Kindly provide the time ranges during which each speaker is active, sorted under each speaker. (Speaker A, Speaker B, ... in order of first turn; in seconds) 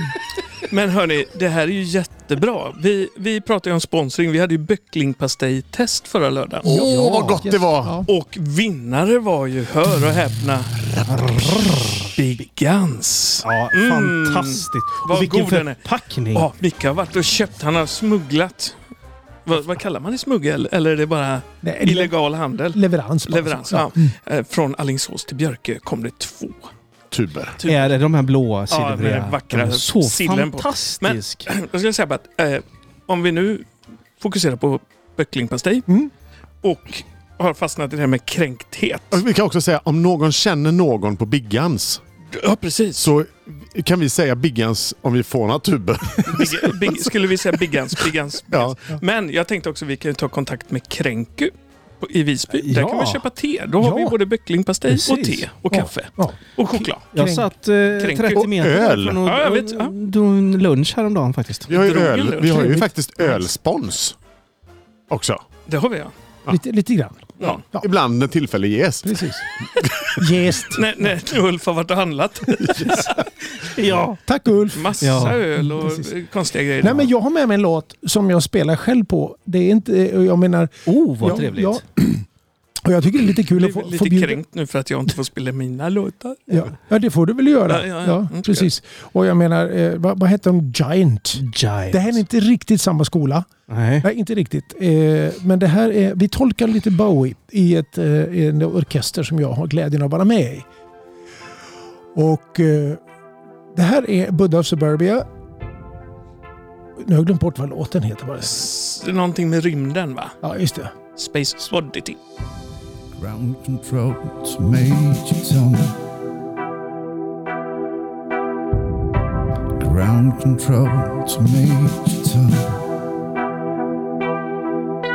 Speaker A: 0.7-6.7, 8.1-10.7, 12.2-15.8, 16.3-18.8, 19.4-26.7, 27.6-27.9, 28.7-35.9, 36.6-39.2, 42.3-43.1, 46.2-57.0, 58.0-58.5, 59.2-59.9, 61.7-62.7, 65.7-66.1, 70.7-73.2, 74.7-77.1, 83.4-86.6, 87.7-88.7, 108.5-110.4, 111.2-112.2
Speaker B: 6.6-8.0, 27.1-27.6, 39.1-42.0, 43.0-48.8, 58.3-59.2, 61.7-64.2, 65.1-65.4, 67.7-70.4
Speaker C: 6.6-8.1, 21.6-22.1, 22.7-24.1, 53.8-54.1, 55.7-57.5, 62.5-63.5, 66.5-67.9, 69.0-69.5, 70.2-71.1, 72.6-73.2, 74.2-76.1, 76.8-82.2, 82.8-84.4, 86.5-93.5, 94.0-100.7, 102.1-103.0, 103.7-105.2, 107.0-108.6, 110.4-110.9
Speaker D: 11.1-12.2, 13.4-16.5, 27.6-31.5, 52.5-53.2, 54.9-55.4, 57.1-61.7, 73.6-74.2, 75.0-75.4, 80.9-81.8, 91.4-92.2, 93.7-94.1
Speaker E: 113.1-116.0, 119.8-122.8